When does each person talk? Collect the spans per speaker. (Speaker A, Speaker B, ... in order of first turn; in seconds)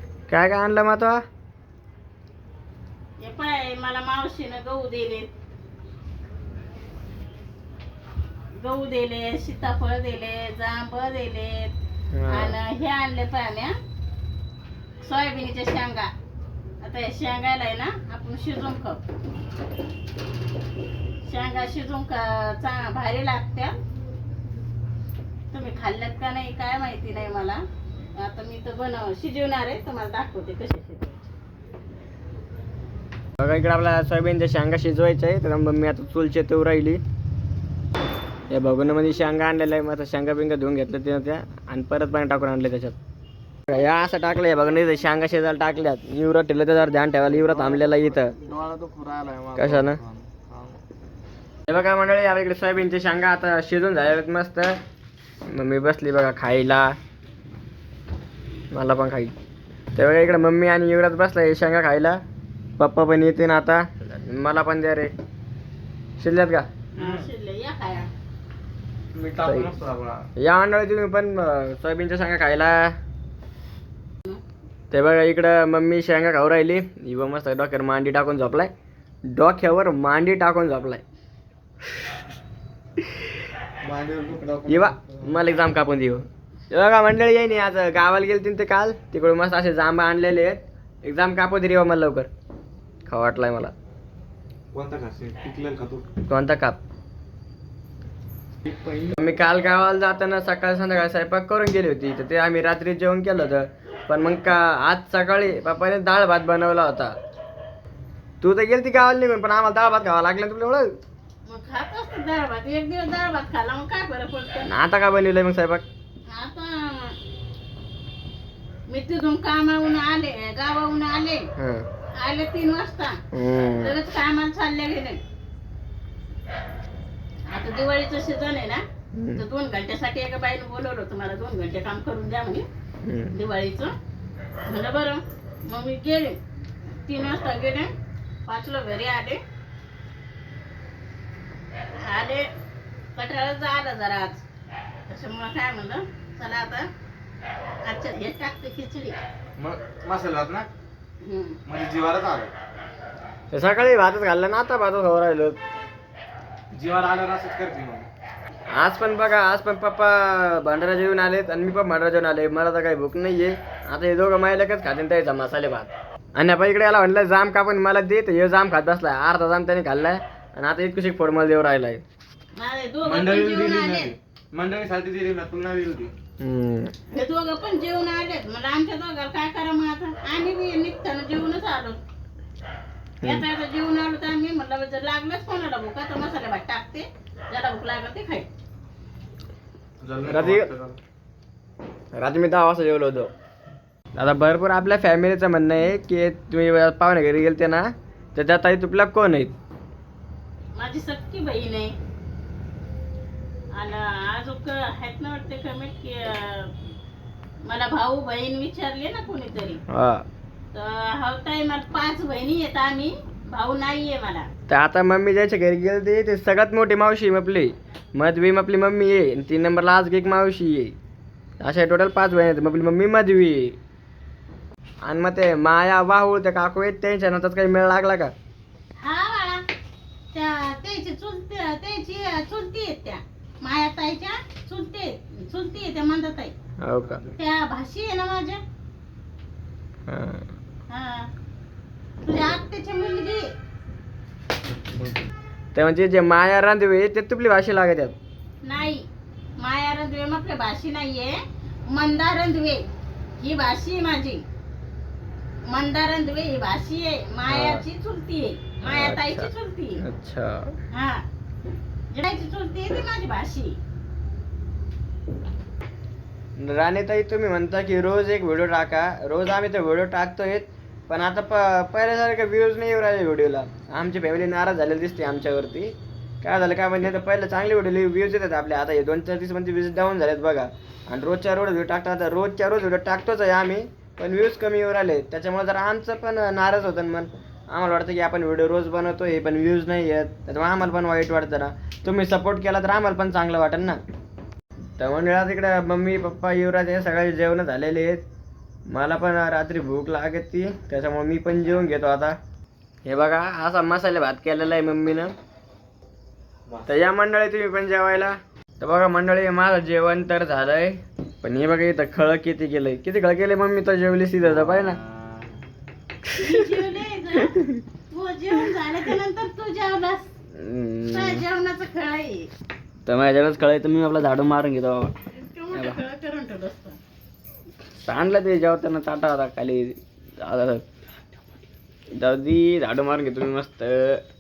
Speaker A: 0.3-1.2, 12.1-12.6, 33.4-37.0, 38.5-43.0, 43.7-48.3, 49.6-50.0, 51.7-54.8, 55.5-56.9, 58.7-59.3, 60.0-62.2, 62.8-65.1, 66.2-66.7, 69.4-69.7, 70.4-72.9, 74.9-78.7, 79.3-81.0, 84.7-92.3, 93.1-93.7, 96.3-96.8, 99.0-107.1, 108.4-110.9, 114.7-115.8, 121.6-121.8, 123.3-124.0, 129.2-129.4, 133.1-133.3, 153.5-155.6, 158.7-172.0, 176.4-176.9, 190.2-190.7, 192.1-193.3, 194.2-199.5, 209.9-210.2, 214.7-220.9, 221.6-223.8, 225.1-228.3, 236.8-237.2, 240.1-240.4, 245.8-248.2, 257.5-257.8, 258.9-260.7, 266.6-294.0, 295.0-298.2, 298.9-302.3, 303.1-305.3, 306.9-315.0, 317.4-317.8, 320.6-321.4, 323.1-325.1, 325.7-326.0, 328.0-330.8, 332.1-334.2
Speaker B: 3.2-5.3, 8.6-11.7, 12.3-13.7, 15.0-16.1, 16.8-19.0, 21.2-23.7, 25.5-27.6, 28.2-31.2, 67.0-68.1, 111.5-114.7, 116.3-117.2, 118.9-121.5, 122.2-123.2, 123.8-125.2, 127.5-128.8, 129.3-132.7, 133.3-133.9, 134.7-136.4, 137.1-137.9, 138.5-139.4, 142.0-142.5, 143.2-144.4, 145.1-146.9, 147.9-149.2, 151.2-151.6, 172.6-174.2, 177.1-182.0, 183.2-188.5, 200.8-201.9, 203.7-206.7, 207.7-209.8, 210.7-214.5, 229.0-229.6, 230.3-236.5, 237.4-238.6, 240.9-241.3, 242.2-243.5, 248.6-249.1, 249.6-251.4, 251.9-252.9, 253.4-254.4, 255.7-260.0, 260.9-261.2, 262.1-263.8, 316.4-317.6, 318.1-320.3, 321.1-322.5, 325.3-327.0
Speaker C: 47.3-50.8, 67.0-67.3, 69.1-70.3, 83.8-85.4, 94.7-96.1, 149.6-150.7, 151.7-152.5, 156.7-158.1, 173.0-176.1, 190.0-191.0